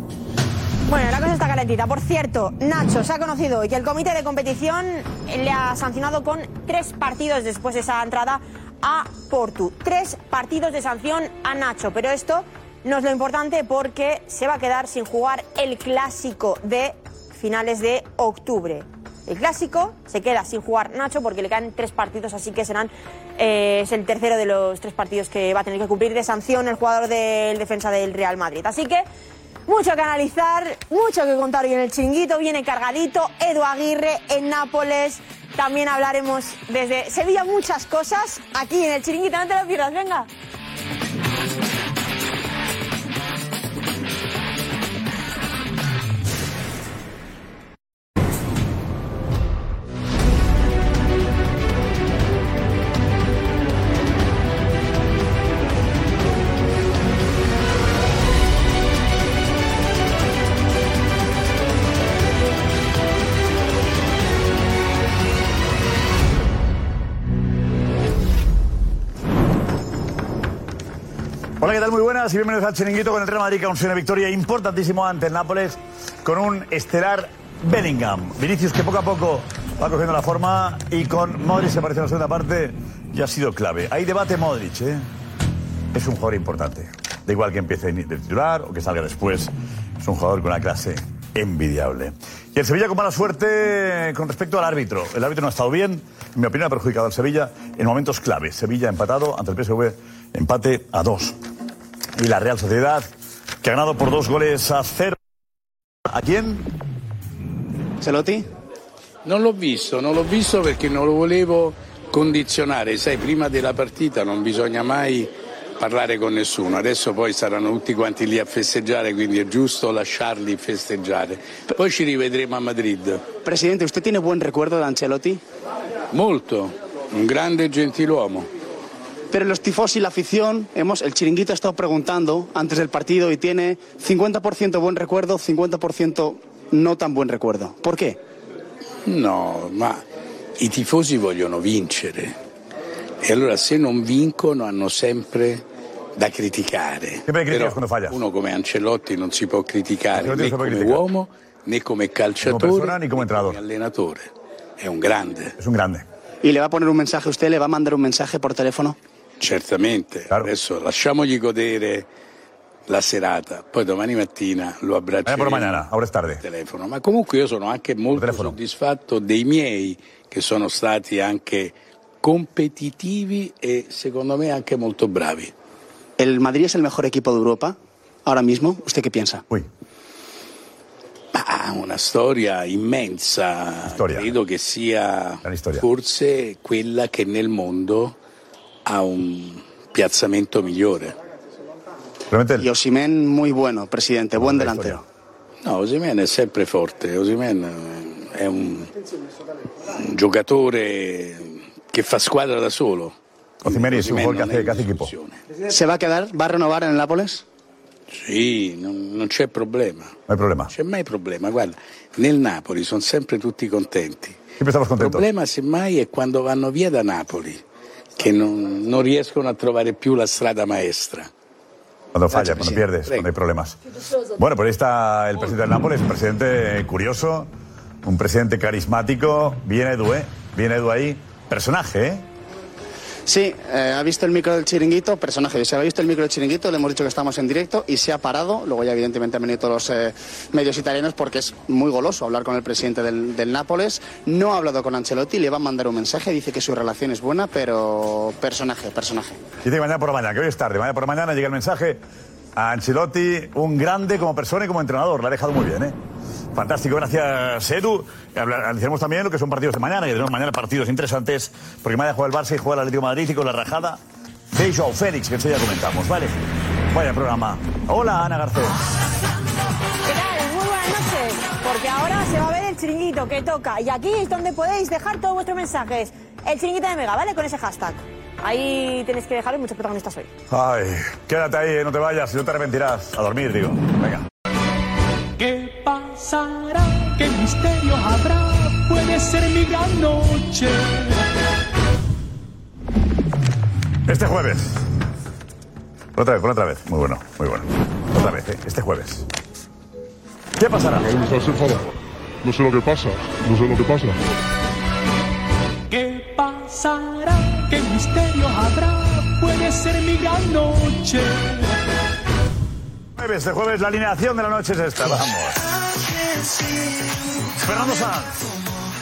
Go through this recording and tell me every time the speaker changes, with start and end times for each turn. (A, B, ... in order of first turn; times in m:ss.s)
0:00.9-0:29.0 A
0:29.7-0:40.3 A
1:11.6-1:25.0 B
1:25.9-1:41.4 B
1:42.2-1:43.1 B
1:43.6-1:45.2 B
1:46.1-1:46.7 B
1:48.0-1:48.5 C
1:49.2-2:03.2 D
2:03.4-2:05.4 C
2:06.1-2:08.5 D
2:09.3-2:18.2 C
2:19.1-2:20.0 D
2:20.6-2:22.4 D
2:23.2-2:25.6 D
2:26.2-2:35.6 D
2:27.3-2:28.2 B
2:30.2-2:31.0 B
2:32.4-2:33.6 B
2:35.6-2:36.1 B
2:36.4-2:39.0 C
2:39.4-2:42.1 D
2:42.9-2:45.8 D
2:45.2-2:46.4 B
2:46.4-2:55.5 D
2:48.2-2:48.6 B
2:56.2-2:59.4 C
3:01.3-3:08.2 D
3:03.9-3:04.3 B
3:05.4-3:05.8 B
3:08.9-3:11.1 D
3:12.3-3:12.7 B
3:12.6-3:15.0 C
3:14.4-3:15.0 B
3:15.6-3:18.9 D
3:19.9-3:25.4 D
3:23.6-3:25.1 B
3:25.7-3:27.4 C
3:28.1-3:30.1 D
3:30.3-3:30.7 B
3:30.7-3:34.4 D
3:34.6-3:35.2 B
3:35.0-3:37.6 D
3:38.2-3:41.3 D
3:42.1-3:43.8 B
3:44.4-3:47.5 B
3:48.0-3:52.2 B
3:53.3-4:09.4 C
4:09.6-4:12.0 B
4:12.6-4:16.0 B
4:16.6-4:24.0 B
4:24.5-4:26.4 B
4:26.9-4:28.8 B
4:30.0-4:40.3 A
4:40.5-4:44.2 B
4:45.4-4:51.2 E
4:54.1-4:54.8 B
4:56.2-4:59.2 B
5:00.6-5:01.2 B
5:01.0-5:04.2 F
5:05.9-5:11.8 E
5:13.2-5:15.6 B
5:17.6-5:18.5 B